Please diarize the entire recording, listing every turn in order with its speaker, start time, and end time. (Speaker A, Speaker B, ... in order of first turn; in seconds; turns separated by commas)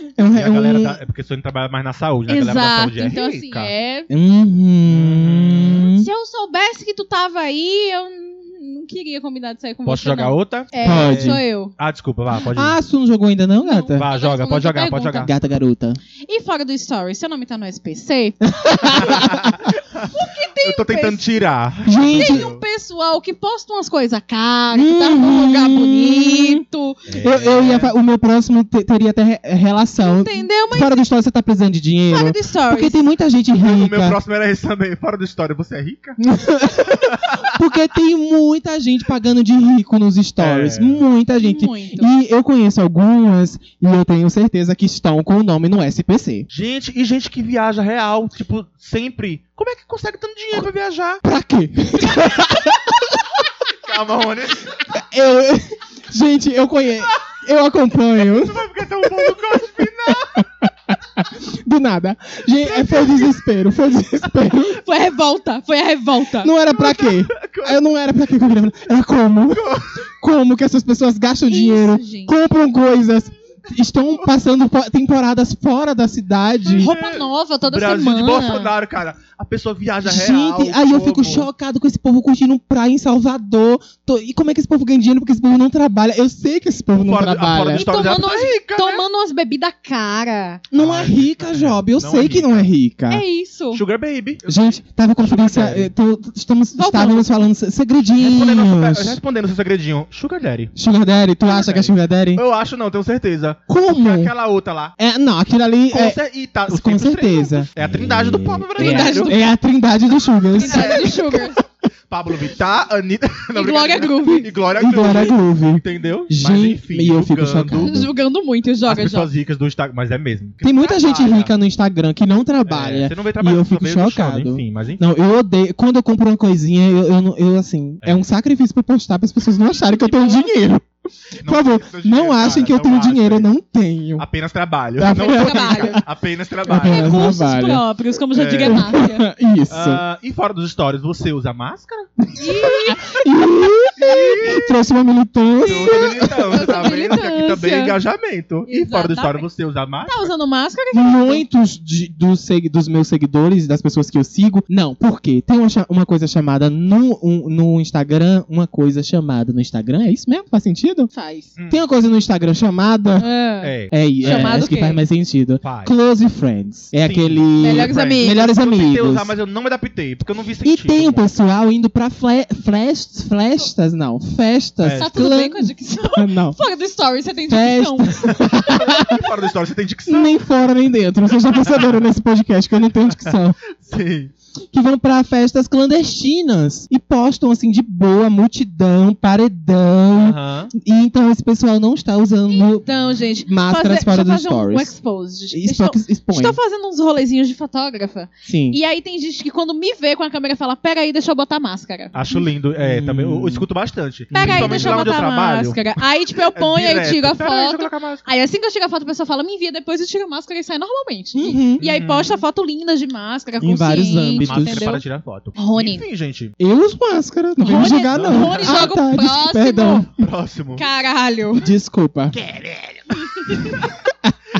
Speaker A: 0.2-1.0, Speaker B: 0.3-3.7, Speaker C: 2.3-4.1, Speaker A: 4.1-6.1, Speaker B: 4.9-5.9, Speaker C: 6.0-11.7, Speaker B: 9.9-12.8, Speaker A: 10.8-11.4, Speaker A: 12.5-14.1, Speaker C: 13.6-15.3, Speaker B: 14.0-15.3, Speaker A: 15.2-16.0, Speaker C: 16.2-19.2, Speaker A: 18.4-19.6, Speaker B: 18.9-22.6, Speaker C: 20.1-21.3, Speaker A: 21.9-22.5, Speaker C: 22.1-27.1, Speaker A: 24.7-26.6, Speaker B: 27.1-27.9, Speaker A: 27.2-34.2, Speaker C: 30.0-31.1, Speaker C: 32.1-33.0, Speaker B: 33.5-36.2, Speaker A: 36.2-46.5, Speaker B: 36.9-37.5, Speaker B: 40.4-41.0, Speaker C: 41.3-42.1, Speaker B: 46.5-51.2, Speaker A: 51.2-53.4, Speaker B: 53.7-54.9, Speaker A: 54.9-64.8, Speaker B: 58.2-60.5, Speaker C: 64.7-66.5, Speaker A: 66.4-76.9, Speaker B: 66.7-67.9, Speaker B: 69.5-70.0, Speaker C: 71.5-72.3, Speaker C: 76.6-78.7, Speaker B: 76.8-81.5, Speaker A: 80.0-87.8, Speaker B: 86.9-89.0, Speaker C: 87.7-90.6, Speaker A: 90.7-93.2, Speaker B: 90.7-92.7, Speaker C: 93.1-93.8, Speaker B: 93.7-95.9, Speaker A: 94.5-99.2, Speaker C: 96.8-97.3, Speaker B: 98.2-100.7, Speaker A: 100.8-102.4, Speaker B: 101.5-104.9, Speaker A: 103.7-104.3, Speaker A: 105.0-111.4, Speaker B: 105.9-109.4, Speaker C: 108.8-109.4, Speaker C: 110.6-111.6, Speaker B: 110.6-118.0, Speaker C: 113.5-114.5, Speaker A: 114.8-118.1, Speaker C: 117.8-119.3, Speaker B: 118.9-121.5, Speaker A: 120.6-130.9, Speaker B: 122.7-125.0, Speaker C: 129.8-130.5, Speaker B: 131.4-133.5, Speaker A: 131.4-134.3, Speaker B: 134.2-137.2, Speaker A: 135.0-136.0, Speaker C: 135.1-136.0, Speaker A: 136.7-137.8, Speaker C: 136.7-139.3, Speaker B: 138.3-138.9, Speaker A: 138.6-140.0, Speaker B: 139.7-142.1, Speaker C: 142.4-143.0, Speaker A: 142.6-146.7, Speaker B: 144.0-144.7, Speaker B: 145.6-150.3, Speaker C: 145.6-147.9, Speaker C: 148.7-149.5, Speaker C: 150.0-151.4, Speaker A: 150.9-161.1, Speaker C: 161.1-161.5, Speaker B: 161.6-161.8, Speaker A: 161.7-163.3, Speaker C: 163.2-165.0, Speaker B: 163.6-164.6, Speaker A: 163.9-169.3, Speaker B: 165.6-165.9, Speaker B: 166.9-171.3, Speaker C: 167.6-168.4, Speaker A: 170.6-176.6, Speaker B: 174.8-175.3, Speaker C: 174.9-178.2, Speaker A: 177.5-179.3, Speaker B: 178.2-180.4, Speaker A: 180.1-183.6, Speaker B: 181.5-182.0, Speaker B: 183.1-184.3, Speaker A: 184.7-192.9, Speaker B: 190.2-190.7, Speaker C: 192.5-202.2, Speaker A: 193.4-194.9, Speaker A: 195.5-196.6, Speaker A: 198.4-198.8, Speaker B: 202.1-208.3, Speaker A: 202.8-203.7, Speaker C: 204.3-215.0, Speaker A: 204.3-205.1, Speaker A: 211.3-211.8, Speaker B: 211.8-212.4, Speaker A: 213.6-214.9, Speaker B: 214.4-216.5, Speaker C: 215.6-216.0, Speaker A: 216.6-220.3, Speaker C: 217.6-220.1, Speaker B: 218.1-218.9, Speaker B: 220.2-220.8, Speaker C: 220.8-221.7, Speaker A: 221.6-222.4, Speaker B: 222.3-223.9